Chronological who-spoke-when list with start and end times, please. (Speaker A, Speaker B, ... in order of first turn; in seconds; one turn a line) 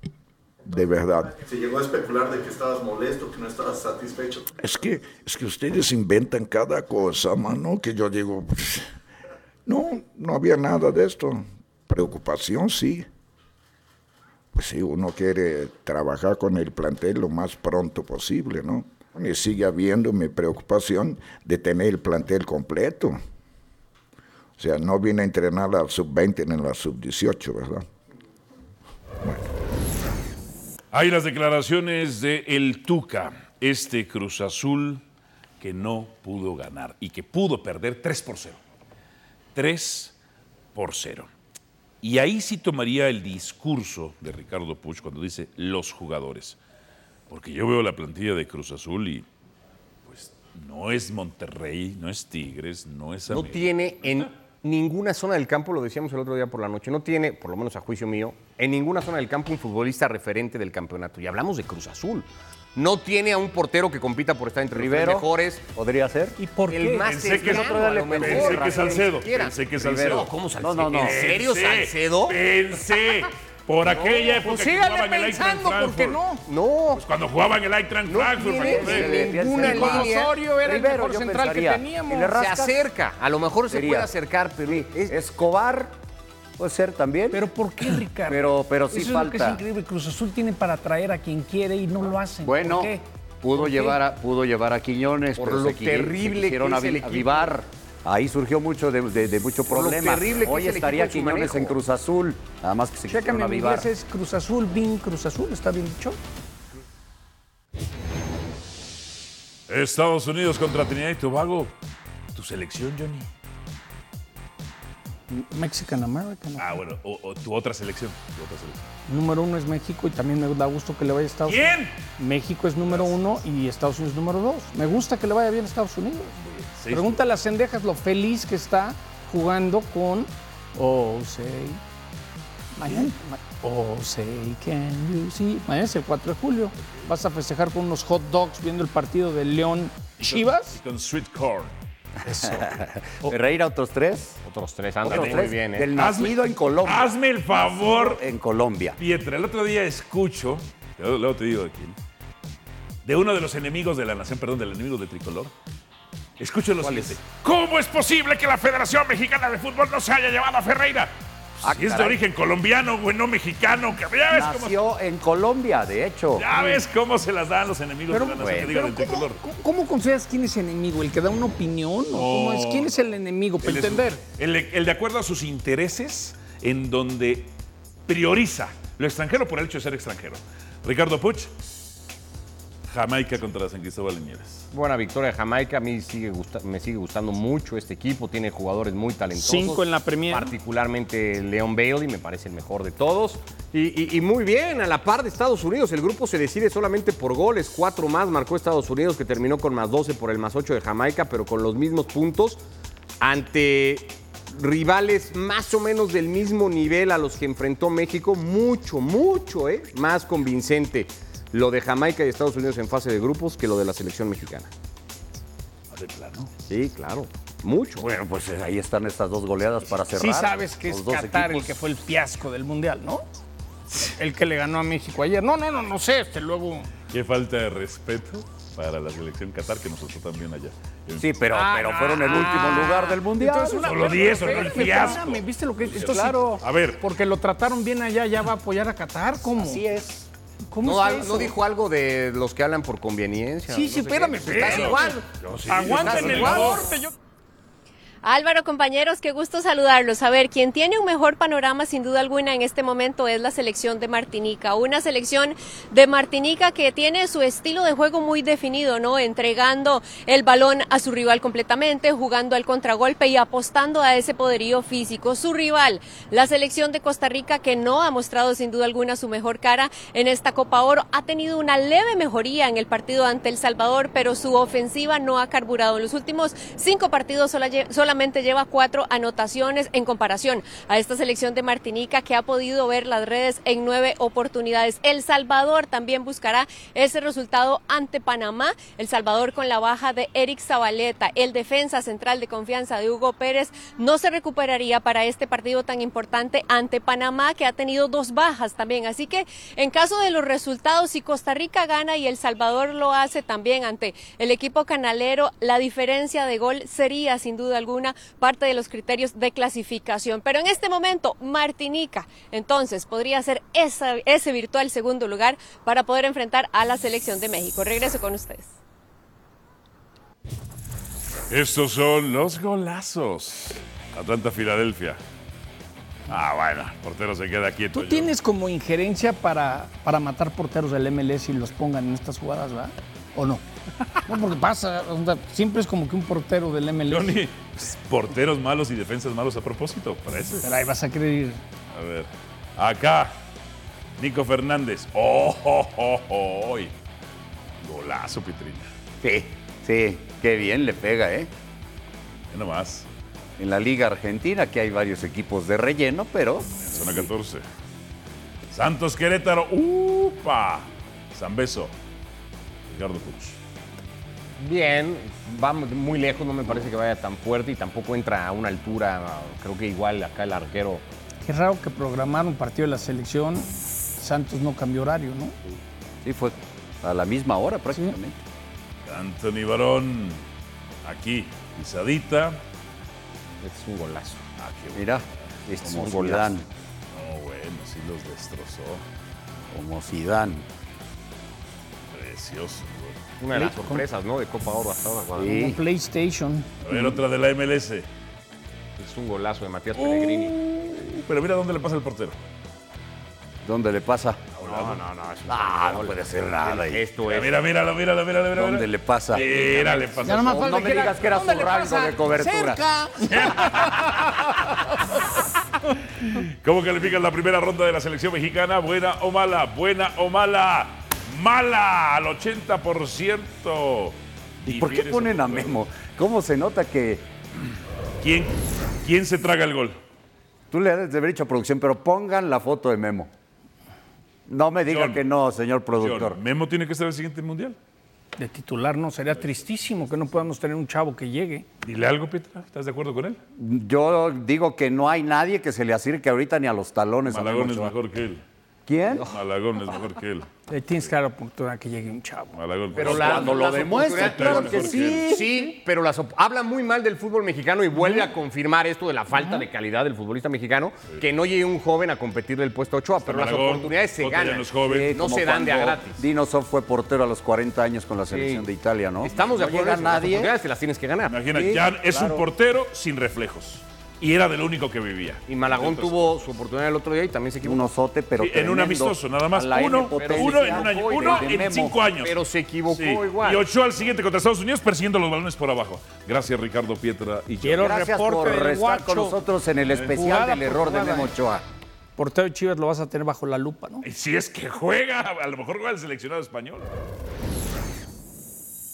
Speaker A: 0.7-1.4
Speaker B: 1.4-4.4
Speaker A: 4.6-8.8
Speaker A: 9.7-13.1
Speaker A: 14.5-23.2
Speaker A: 24.6-27.9
Speaker C: 30.9-35.0
Speaker C: 35.6-38.6
Speaker C: 39.5-40.1
Speaker C: 40.7-41.3
Speaker C: 42.0-46.6
Speaker C: 47.3-49.2
Speaker C: 50.0-54.3
Speaker D: 53.3-65.6
Speaker E: 64.7-66.4
Speaker F: 66.4-67.0
Speaker D: 66.7-72.4
Speaker C: 67.0-70.3
Speaker E: 67.3-69.2
Speaker E: 69.8-71.3
Speaker C: 70.9-76.2
Speaker F: 74.3-76.4
Speaker D: 76.5-77.0
Speaker C: 77.0-79.2
Speaker D: 78.0-80.3
Speaker E: 78.7-82.8
Speaker F: 79.1-82.3
Speaker D: 82.4-85.1
Speaker E: 83.7-84.1
Speaker E: 84.7-85.9
Speaker E: 86.6-87.5
Speaker F: 87.3-94.0
Speaker E: 88.3-89.6
Speaker E: 92.4-103.9
Speaker D: 95.4-97.5
Speaker D: 99.7-101.7
Speaker F: 103.1-106.2
Speaker C: 109.7-111.7
Speaker C: 112.3-113.3
Speaker F: 115.3-116.7
Speaker C: 116.6-118.9
Speaker F: 119.1-121.7
Speaker C: 121.4-122.0
Speaker F: 122.2-126.3
Speaker C: 122.8-123.2
Speaker C: 126.4-127.2
Speaker F: 126.9-131.8
Speaker F: 132.8-140.8
Speaker C: 136.8-137.1
Speaker C: 140.2-141.7
Speaker E: 142.3-144.4
Speaker C: 142.3-142.7
Speaker D: 144.4-145.9
Speaker E: 145.0-149.0
Speaker C: 145.1-148.2
Speaker C: 149.0-152.0
Speaker C: 153.0-155.5
Speaker C: 156.4-164.8
Speaker D: 156.8-157.1
Speaker D: 161.7-162.1
Speaker E: 164.3-166.5
Speaker C: 166.3-169.4
Speaker F: 166.5-166.8
Speaker F: 168.1-174.2
Speaker E: 168.4-168.7
Speaker C: 172.1-172.9
Speaker C: 173.6-177.5
Speaker C: 178.1-181.5
Speaker C: 182.9-184.6
Speaker D: 184.7-202.6
Speaker F: 189.3-190.5
Speaker D: 203.2-214.7
Speaker C: 215.9-216.5
Speaker D: 216.7-218.0
Speaker E: 218.0-221.7
Speaker F: 219.9-223.2
Speaker F: 223.9-226.9
Speaker C: 227.1-231.5
Speaker E: 231.2-234.1
Speaker F: 231.5-239.8
Speaker C: 233.8-237.0
Speaker E: 239.5-240.2
Speaker F: 240.7-241.6
Speaker D: 240.8-245.2
Speaker F: 243.7-247.1
Speaker C: 244.6-246.8
Speaker D: 245.8-246.9
Speaker G: 248.2-318.7
Speaker C: 321.5-325.2
Speaker C: 326.3-328.3
Speaker F: 327.9-333.6
Speaker F: 334.2-337.4
Speaker C: 337.1-340.7
Speaker F: 340.6-341.6
Speaker C: 341.9-343.3
Speaker C: 344.2-346.9
Speaker C: 347.8-348.9
Speaker E: 349.2-351.5
Speaker C: 352.5-353.1
Speaker E: 353.6-357.1
Speaker C: 356.8-357.6
Speaker C: 358.7-361.9
Speaker C: 362.9-363.6
Speaker D: 364.6-371.0
Speaker F: 371.4-375.6
Speaker E: 376.2-378.4
Speaker C: 379.1-380.4
Speaker C: 381.0-382.6
Speaker D: 383.6-384.4
Speaker C: 384.6-385.2
Speaker E: 384.9-386.6
Speaker C: 385.8-386.1
Speaker D: 385.9-386.5
Speaker C: 387.1-389.0
Speaker E: 389.7-390.6
Speaker C: 392.1-393.3
Speaker D: 393.4-395.5
Speaker F: 393.5-394.0
Speaker E: 395.4-395.8
Speaker F: 395.4-396.7
Speaker C: 396.8-398.1
Speaker D: 399.0-400.6
Speaker C: 399.9-402.4
Speaker E: 403.6-404.5
Speaker C: 404.6-405.0
Speaker D: 404.6-407.6
Speaker E: 405.5-407.0
Speaker C: 407.2-410.6
Speaker E: 408.5-413.4
Speaker D: 409.6-410.0
Speaker F: 410.2-414.3
Speaker C: 413.3-414.7
Speaker C: 416.2-425.8
Speaker E: 424.6-427.3
Speaker C: 428.2-430.0
Speaker E: 430.7-433.3
Speaker E: 434.5-436.4
Speaker C: 434.8-435.2
Speaker C: 435.9-437.8
Speaker F: 438.4-441.6
Speaker C: 439.4-439.9
Speaker C: 441.8-443.4
Speaker E: 443.6-447.9
Speaker C: 447.2-448.4
Speaker E: 448.9-449.3
Speaker C: 449.3-450.5
Speaker F: 450.7-452.6
Speaker C: 452.5-455.2
Speaker D: 452.9-466.2
Speaker E: 452.9-455.7
Speaker C: 463.2-465.1
Speaker E: 464.8-470.5
Speaker D: 468.3-468.6
Speaker D: 469.2-471.4
Speaker C: 471.2-476.4
Speaker E: 471.5-472.4
Speaker D: 475.5-477.9
Speaker E: 477.6-482.0
Speaker C: 478.4-482.3
Speaker D: 480.1-481.6
Speaker D: 482.2-483.6
Speaker C: 482.9-487.9
Speaker F: 487.6-489.4
Speaker E: 487.7-491.6
Speaker C: 489.9-490.2
Speaker F: 490.1-491.3
Speaker F: 492.2-494.0
Speaker C: 494.0-496.9